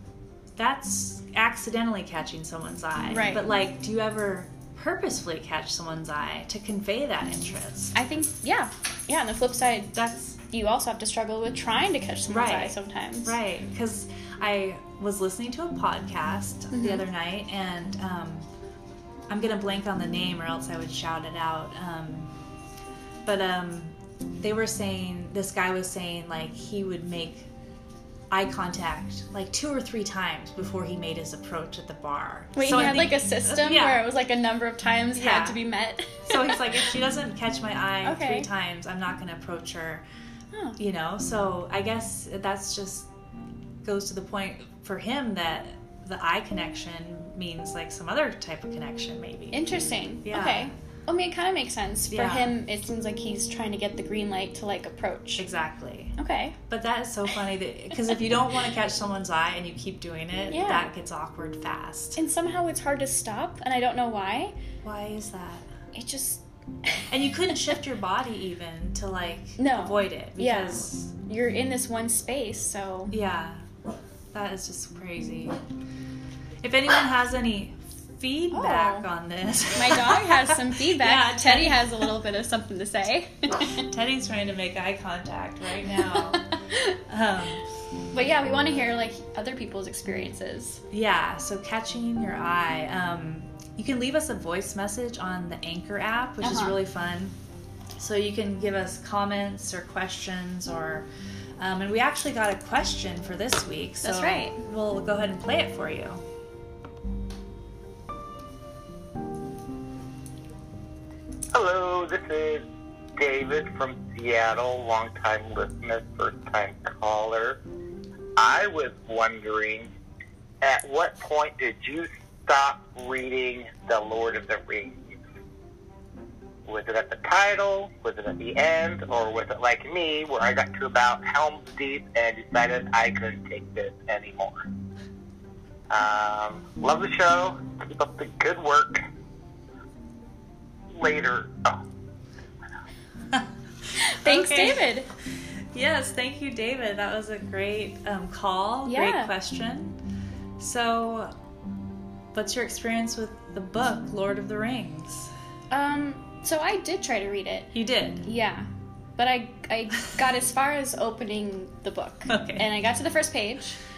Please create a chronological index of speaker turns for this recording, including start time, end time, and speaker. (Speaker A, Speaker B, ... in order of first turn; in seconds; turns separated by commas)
Speaker A: 0.6-7.9, Speaker B: 3.1-3.4, Speaker B: 7.9-13.4, Speaker A: 9.9-10.4, Speaker A: 12.3-18.5, Speaker B: 16.7-17.0, Speaker A: 19.3-22.3, Speaker A: 23.2-27.5, Speaker A: 28.3-34.1, Speaker B: 32.5-36.9, Speaker A: 35.1-35.6, Speaker A: 36.2-40.0, Speaker B: 38.0-38.5, Speaker B: 40.5-40.8, Speaker A: 40.8-43.1, Speaker A: 43.8-49.6, Speaker B: 49.5-55.4, Speaker A: 50.2-50.7, Speaker A: 52.1-52.5, Speaker A: 55.4-56.2, Speaker B: 56.2-56.6, Speaker A: 56.7-62.2, Speaker B: 60.5-60.9, Speaker B: 62.2-64.5, Speaker A: 64.8-65.7, Speaker B: 65.9-67.0, Speaker A: 67.1-71.1, Speaker B: 69.6-73.1, Speaker A: 73.1-73.6, Speaker A: 74.3-75.6, Speaker A: 76.6-82.0, Speaker B: 78.5-79.1, Speaker B: 79.7-83.8, Speaker A: 83.7-86.5, Speaker B: 85.8-86.9, Speaker A: 87.1-87.7, Speaker B: 88.1-90.8, Speaker A: 90.9-97.3, Speaker B: 96.4-96.8, Speaker A: 98.0-101.1, Speaker A: 101.6-106.2, Speaker B: 104.0-104.6, Speaker C: 111.5-112.6, Speaker C: 113.2-117.6, Speaker C: 118.4-119.9, Speaker C: 120.6-125.2, Speaker C: 126.7-134.6, Speaker C: 135.9-139.0, Speaker C: 140.9-141.8, Speaker B: 143.9-145.1, Speaker A: 144.2-145.0, Speaker A: 145.7-150.0, Speaker B: 148.8-149.3, Speaker A: 150.6-151.3, Speaker A: 152.3-155.3, Speaker B: 155.7-157.7, Speaker A: 157.7-158.2, Speaker B: 158.2-163.8, Speaker A: 162.3-162.7